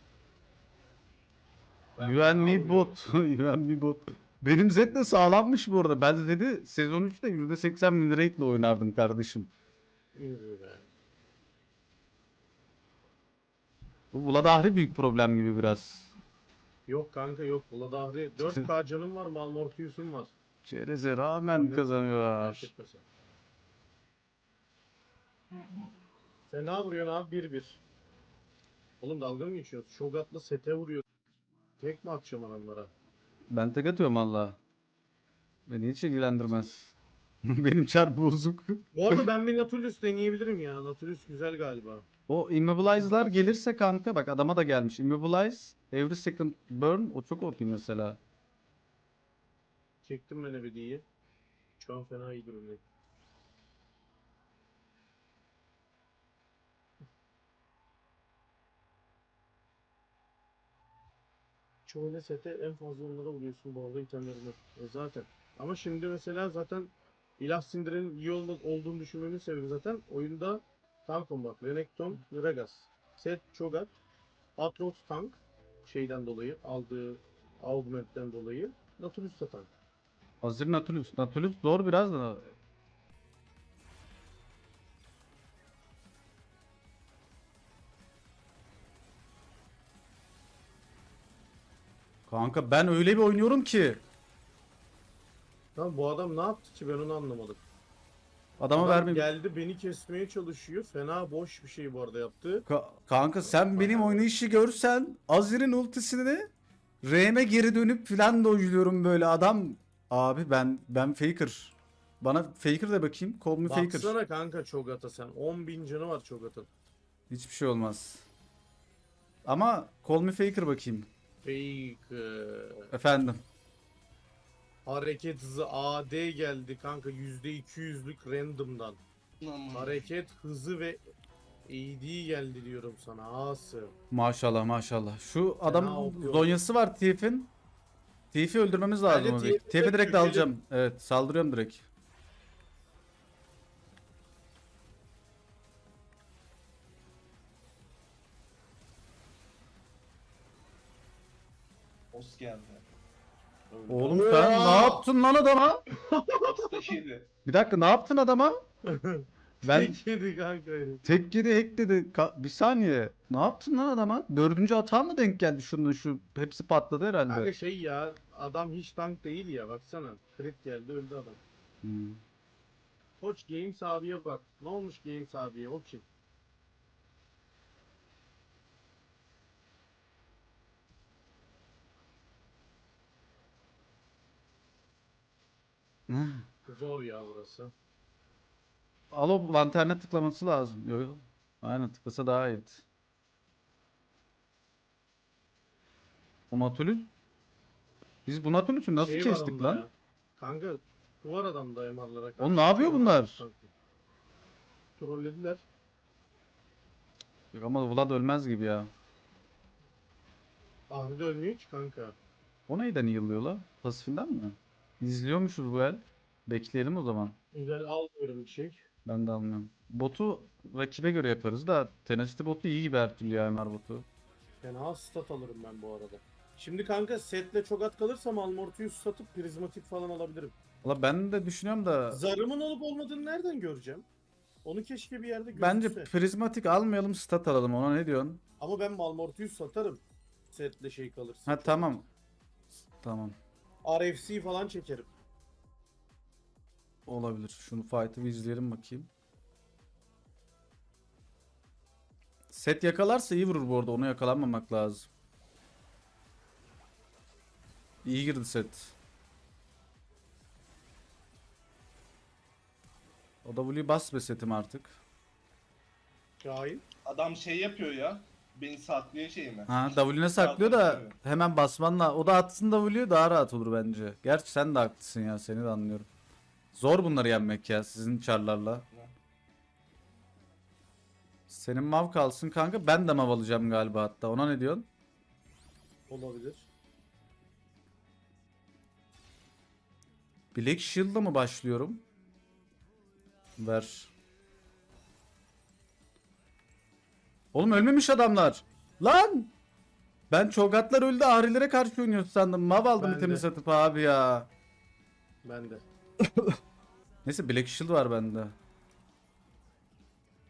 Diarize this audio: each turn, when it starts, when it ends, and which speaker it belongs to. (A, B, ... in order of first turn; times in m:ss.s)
0:02.0-0:03.0 A
0:02.0-0:09.5 B
0:10.2-0:10.9 A
0:14.1-0:16.1 B
0:16.9-0:20.3 A
0:20.6-0:22.7 B
0:21.5-0:21.9 A
0:22.4-0:23.0 A
0:26.5-0:27.8 A
0:29.0-0:31.0 A
0:31.8-0:32.9 A
0:33.5-0:34.6 B
0:35.7-0:36.9 B
0:37.4-0:39.2 B
0:38.9-0:42.0 A
0:42.3-0:48.2 B
0:50.0-0:51.0 A
0:51.8-0:52.8 A
1:01.9-1:13.9 A
1:14.6-1:19.7 A
1:20.4-1:22.5 B
1:32.3-1:34.0 B
1:35.8-1:37.6 A
1:38.6-1:39.3 B
1:38.7-1:42.7 A
1:42.7-1:46.5 B
1:43.4-1:44.3 A
1:47.0-1:54.1 B
1:53.6-1:56.7 A
1:57.3-1:58.3 B
1:59.5-2:01.1 B
2:01.4-2:02.9 A
2:02.9-2:03.4 B
2:04.8-2:09.0 A
2:09.4-2:10.0 C
2:09.7-2:11.0 A
2:11.7-2:13.9 A
2:14.1-2:17.5 B
2:15.6-2:16.6 A
2:18.3-2:21.8 B
2:19.0-2:20.5 A
2:32.1-2:32.8 C
2:33.7-2:34.3 C
2:33.9-2:35.1 A
2:33.9-2:35.8 B
2:36.1-2:36.5 A
2:36.4-2:37.3 C
2:37.5-2:38.6 B
2:38.9-2:41.0 A
2:39.6-2:40.0 B
2:41.0-2:47.5 B
2:47.3-2:51.4 A
2:51.8-2:52.2 B
2:53.2-2:56.0 A
3:06.1-3:06.5 B
3:06.7-3:07.7 A
3:09.1-3:12.8 B
3:16.5-3:17.1 B
3:18.3-3:19.8 B
3:19.0-3:23.7 A
3:22.4-3:23.4 B
3:25.0-3:25.6 A
3:27.5-3:28.9 B
3:30.9-3:32.2 A
3:32.7-3:37.4 B
3:37.5-3:38.8 A
3:39.0-3:44.0 B
3:44.6-3:50.6 A
3:50.8-3:52.2 B
3:52.1-3:54.1 A
3:54.6-3:56.1 A
3:55.6-3:58.4 B
3:58.6-4:02.0 A
4:01.5-4:02.1 B
4:03.0-4:03.4 B
4:03.8-4:05.1 A
4:07.1-4:09.1 B
4:12.5-4:15.1 B
4:18.0-4:18.9 B
4:23.4-4:25.0 B
4:26.4-4:26.8 A
4:27.0-4:29.7 C
4:29.7-4:36.1 B
4:30.4-4:31.2 C
4:36.7-4:38.8 B
4:41.5-4:44.9 B
4:46.1-4:46.7 A
4:50.5-4:52.0 B
4:53.6-4:54.1 B
4:57.5-4:59.5 B
5:00.3-5:04.5 B
5:03.0-5:03.5 A
5:05.4-5:05.8 A
5:06.2-5:06.6 B
5:07.2-5:08.6 B